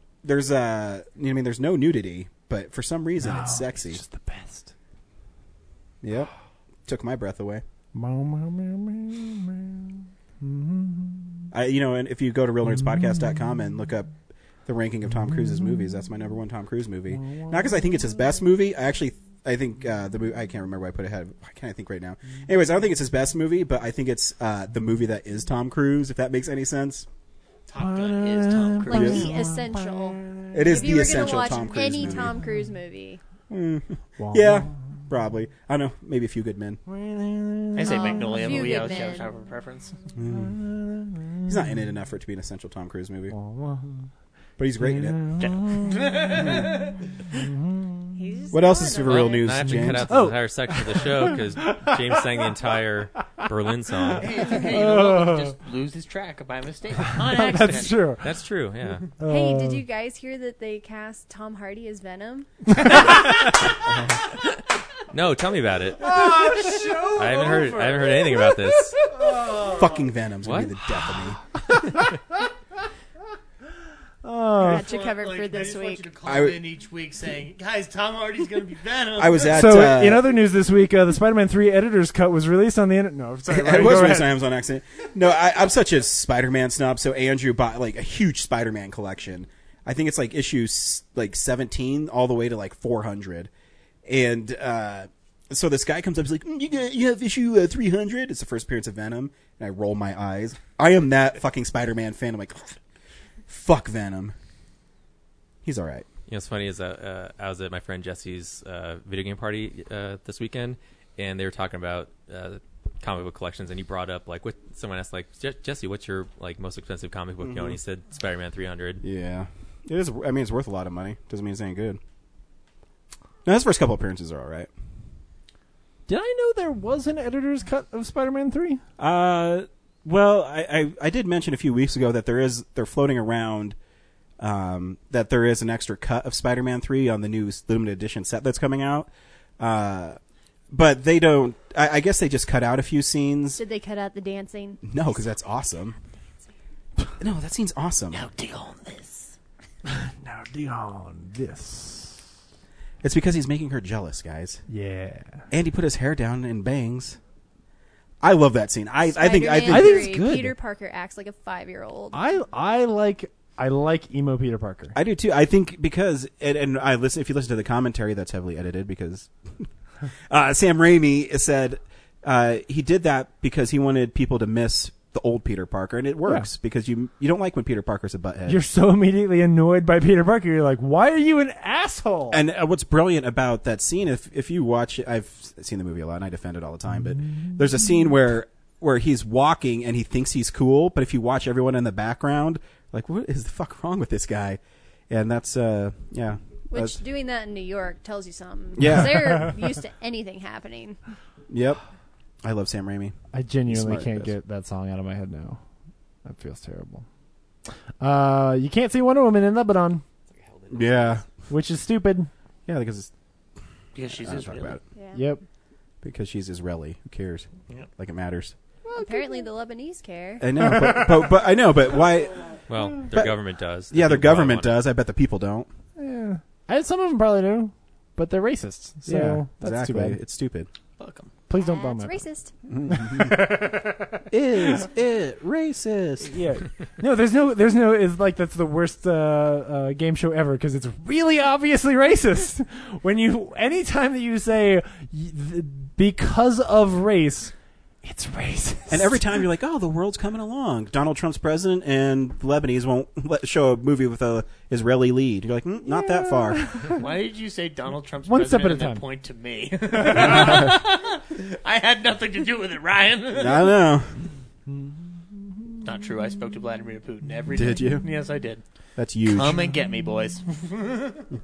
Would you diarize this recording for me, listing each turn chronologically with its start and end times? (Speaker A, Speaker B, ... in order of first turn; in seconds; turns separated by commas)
Speaker A: 0.2-4.0, Speaker B: 3.2-4.7, Speaker A: 6.0-6.3, Speaker A: 6.9-7.6, Speaker B: 7.9-11.5, Speaker A: 11.5-14.1, Speaker B: 12.7-13.5, Speaker A: 14.7-27.1, Speaker B: 15.2-16.0, Speaker B: 17.1-17.9, Speaker C: 27.7-29.2, Speaker B: 27.8-31.2, Speaker D: 28.9-33.2, Speaker A: 28.9-29.2, Speaker A: 30.5-32.4, Speaker A: 33.5-36.8, Speaker B: 34.2-34.8, Speaker B: 36.9-38.7, Speaker C: 37.8-39.9, Speaker D: 37.9-39.3, Speaker A: 40.2-40.6, Speaker B: 40.3-41.8, Speaker A: 41.5-43.4, Speaker B: 43.3-44.1, Speaker A: 44.6-45.3, Speaker B: 44.8-46.5, Speaker C: 45.4-46.9, Speaker B: 47.3-48.1, Speaker D: 48.1-49.4, Speaker A: 48.5-50.1, Speaker E: 49.0-54.5, Speaker B: 49.8-52.7, Speaker B: 54.0-55.5, Speaker C: 54.2-58.1, Speaker B: 57.1-58.3, Speaker E: 58.2-59.1, Speaker B: 59.2-59.9, Speaker D: 59.2-63.0, Speaker B: 62.7-63.1, Speaker E: 63.2-63.8, Speaker E: 65.1-69.0, Speaker B: 66.0-69.9, Speaker A: 69.6-71.4, Speaker E: 70.4-71.1, Speaker B: 71.7-72.4, Speaker B: 74.2-74.9, Speaker D: 74.6-76.1, Speaker C: 74.6-79.7, Speaker A: 76.2-76.6, Speaker A: 79.2-80.3, Speaker B: 79.4-84.3, Speaker A: 83.5-93.5, Speaker A: 94.1-102.8, Speaker A: 103.5-104.3, Speaker A: 105.6-106.1, Speaker E: 106.3-119.0, Speaker A: 117.4-117.8, Speaker A: 119.0-122.0, Speaker A: 123.5-124.7, Speaker B: 126.1-128.8, Speaker A: 129.0-133.8, Speaker A: 134.4-139.1, Speaker A: 139.6-140.2, Speaker A: 140.7-143.6, Speaker D: 143.6-145.2, Speaker A: 144.8-146.0, Speaker A: 147.2-148.2, Speaker C: 148.1-149.4, Speaker B: 149.9-152.3, Speaker A: 153.0-154.6, Speaker B: 154.7-155.4, Speaker A: 155.5-157.2, Speaker A: 158.2-160.1, Speaker D: 159.1-162.2, Speaker B: 159.7-160.6, Speaker B: 162.1-164.9, Speaker A: 164.9-169.7, Speaker A: 170.3-178.6, Speaker B: 178.5-182.4, Speaker A: 182.3-197.0, Speaker D: 196.7-201.0, Speaker A: 198.8-199.5, Speaker A: 201.5-201.8, Speaker A: 202.4-203.2, Speaker B: 203.3-205.6, Speaker A: 203.7-204.3, Speaker B: 206.2-207.1, Speaker B: 208.0-210.0, Speaker E: 210.3-211.2, Speaker A: 210.7-211.2, Speaker B: 211.5-212.3, Speaker A: 212.7-213.1, Speaker C: 213.9-214.8, Speaker A: 214.1-214.8, Speaker D: 215.0-215.3, Speaker B: 215.1-215.4, Speaker A: 216.0-218.5, Speaker B: 218.9-219.5, Speaker D: 218.9-220.4, Speaker A: 220.4-222.4, Speaker B: 220.6-221.1, Speaker E: 222.7-224.9, Speaker A: 223.1-223.4, Speaker A: 223.9-225.7, Speaker B: 226.0-230.2, Speaker A: 229.1-230.7, Speaker C: 231.0-231.3, Speaker B: 231.5-232.2, Speaker D: 231.6-232.5, Speaker A: 232.7-233.7, Speaker B: 232.9-234.8, Speaker A: 234.3-236.3, Speaker B: 236.2-249.4, Speaker A: 248.9-256.8, Speaker B: 255.9-257.0, Speaker C: 257.0-263.8, Speaker B: 258.3-259.0, Speaker A: 263.3-264.1, Speaker B: 264.7-265.8, Speaker C: 265.8-268.6, Speaker A: 267.5-268.0, Speaker A: 269.0-269.6, Speaker C: 269.3-271.3